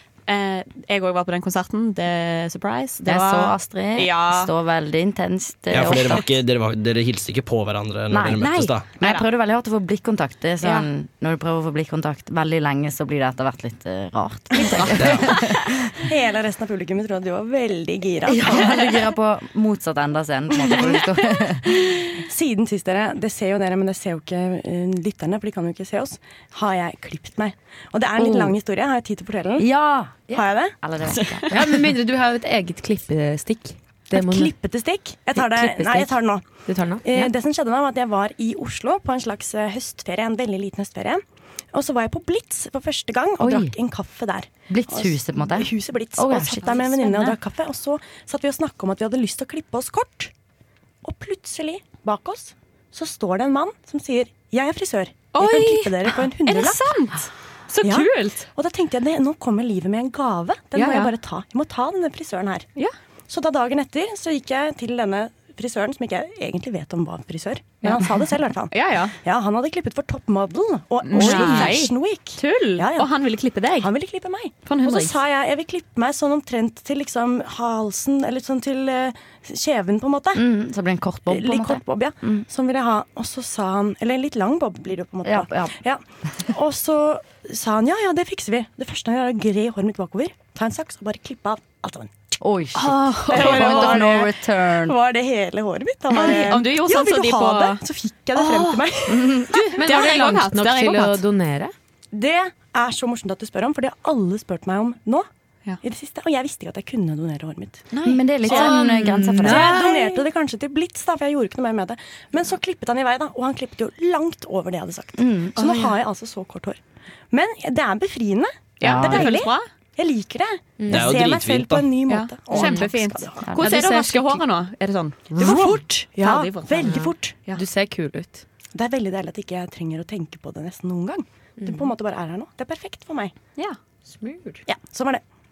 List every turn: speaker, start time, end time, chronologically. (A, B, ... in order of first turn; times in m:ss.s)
0:00.3-0:04.5 A
0:03.0-0:06.2 B
0:05.7-0:08.9 C
0:08.4-0:09.2 A
0:09.0-0:15.8 B
0:10.6-0:10.9 A
0:14.6-0:15.1 A
0:15.0-0:15.3 C
0:15.9-0:18.6 D
0:18.2-0:21.6 B
0:21.9-0:29.7 D
0:28.2-0:28.5 B
0:29.6-0:31.5 B
0:30.3-0:30.7 D
0:31.1-0:31.6 A
0:31.5-0:34.5 E
0:34.1-0:50.3 D
0:35.3-0:36.1 E
0:36.6-0:37.3 E
0:43.4-0:43.7 B
0:44.7-0:47.3 B
0:46.5-0:47.3 A
0:51.0-0:56.8 D
0:55.3-0:58.5 A
0:57.8-1:02.6 D
1:00.7-1:01.1 A
1:03.3-1:20.4 D
1:07.8-1:08.2 A
1:08.7-1:09.2 A
1:11.0-1:13.9 A
1:11.2-1:11.6 B
1:14.6-1:15.2 A
1:20.3-1:22.4 B
1:21.3-1:32.1 D
1:25.2-1:25.7 B
1:32.4-1:35.0 B
1:32.7-1:34.1 A
1:33.3-1:39.6 D
1:36.1-1:41.2 A
1:39.1-1:39.4 B
1:39.7-1:41.7 E
1:42.1-1:45.3 D
1:45.8-1:47.8 D
1:47.9-1:50.2 A
1:48.0-1:49.7 B
1:48.4-1:48.8 D
1:49.4-1:56.8 D
1:55.2-1:55.5 B
1:55.6-1:56.0 A
1:57.3-2:03.5 D
1:58.8-1:59.7 A
1:58.8-1:59.3 B
2:00.8-2:01.1 E
2:00.9-2:01.9 C
2:02.1-2:07.6 A
2:02.5-2:02.9 E
2:03.6-2:04.4 E
2:05.4-2:07.4 D
2:07.5-2:08.4 E
2:08.7-2:13.3 D
2:11.6-2:11.9 E
2:14.1-2:14.6 E
2:14.6-2:15.2 D